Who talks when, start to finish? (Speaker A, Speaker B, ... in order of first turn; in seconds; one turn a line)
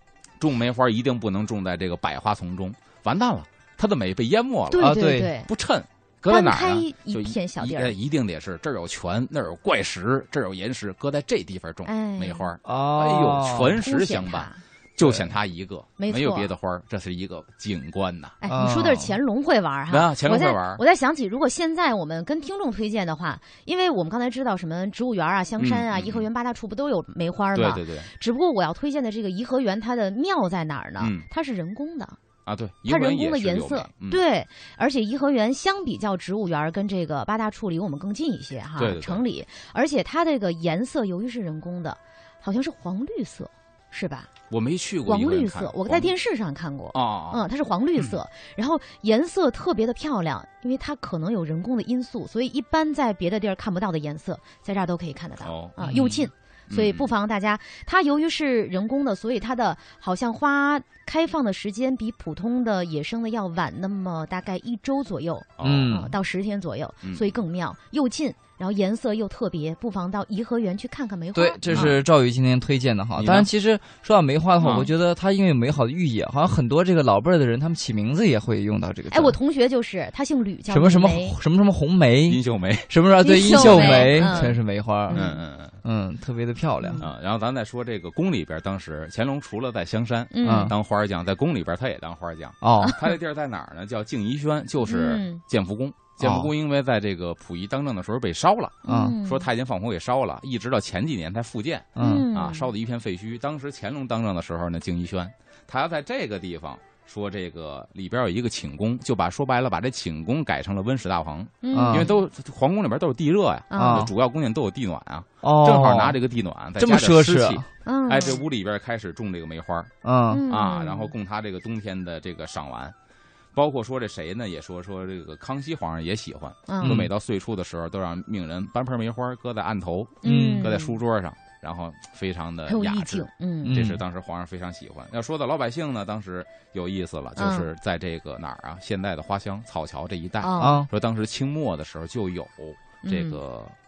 Speaker A: 0.4-18.4
Speaker B: 4.7-5.5
Speaker C: 4.8-5.3
Speaker B: 6.3-8.0
Speaker B: 11.8-12.5
Speaker C: 12.6-13.8
Speaker B: 13.8-14.6
Speaker C: 15.0-15.3
Speaker B: 16.0-16.5
Speaker B: 18.4-32.2
Speaker C: 18.5-19.1
Speaker A: 19.9-20.8
Speaker A: 25.6-26.3
Speaker A: 27.5-28.1
Speaker A: 31.0-31.3
Speaker A: 32.5-34.2
Speaker B: 32.9-44.3
Speaker A: 38.8-39.2
Speaker A: 44.5-46.1
Speaker B: 45.0-72.0
Speaker A: 46.9-47.4
Speaker A: 55.4-56.1
Speaker C: 55.8-56.2
Speaker A: 56.7-57.1
Speaker A: 65.6-66.0
Speaker C: 65.6-66.1
Speaker A: 67.0-67.3
Speaker C: 71.3-79.4
Speaker A: 71.7-72.0
Speaker A: 73.2-73.5
Speaker B: 74.6-74.8
Speaker A: 74.6-74.9
Speaker B: 79.1-81.3
Speaker C: 80.7-85.2
Speaker A: 82.3-82.9
Speaker B: 83.2-85.4
Speaker A: 83.4-84.4
Speaker A: 85.1-85.8
Speaker C: 85.8-87.0
Speaker B: 86.8-87.1
Speaker A: 87.0-119.9
Speaker B: 90.3-90.7
Speaker C: 90.4-90.7
Speaker C: 92.6-93.0
Speaker B: 92.8-93.1
Speaker B: 94.8-95.4
Speaker C: 96.2-96.5
Speaker B: 98.8-99.5
Speaker C: 98.9-99.2
Speaker C: 102.0-102.3
Speaker B: 102.0-102.7
Speaker B: 111.6-112.2
Speaker C: 111.7-112.1
Speaker B: 113.7-114.1
Speaker C: 113.8-114.1
Speaker C: 115.4-116.2
Speaker C: 116.8-117.7
Speaker B: 117.8-118.4
Speaker C: 120.0-120.4
Speaker B: 120.3-121.1
Speaker A: 120.5-122.9
Speaker A: 123.5-143.7
Speaker B: 126.7-127.0
Speaker C: 126.8-127.1
Speaker B: 130.2-131.0
Speaker C: 130.2-130.7
Speaker B: 132.7-133.8
Speaker C: 133.6-134.0
Speaker B: 137.4-137.7
Speaker B: 140.4-140.8
Speaker C: 140.6-140.9
Speaker B: 143.0-143.4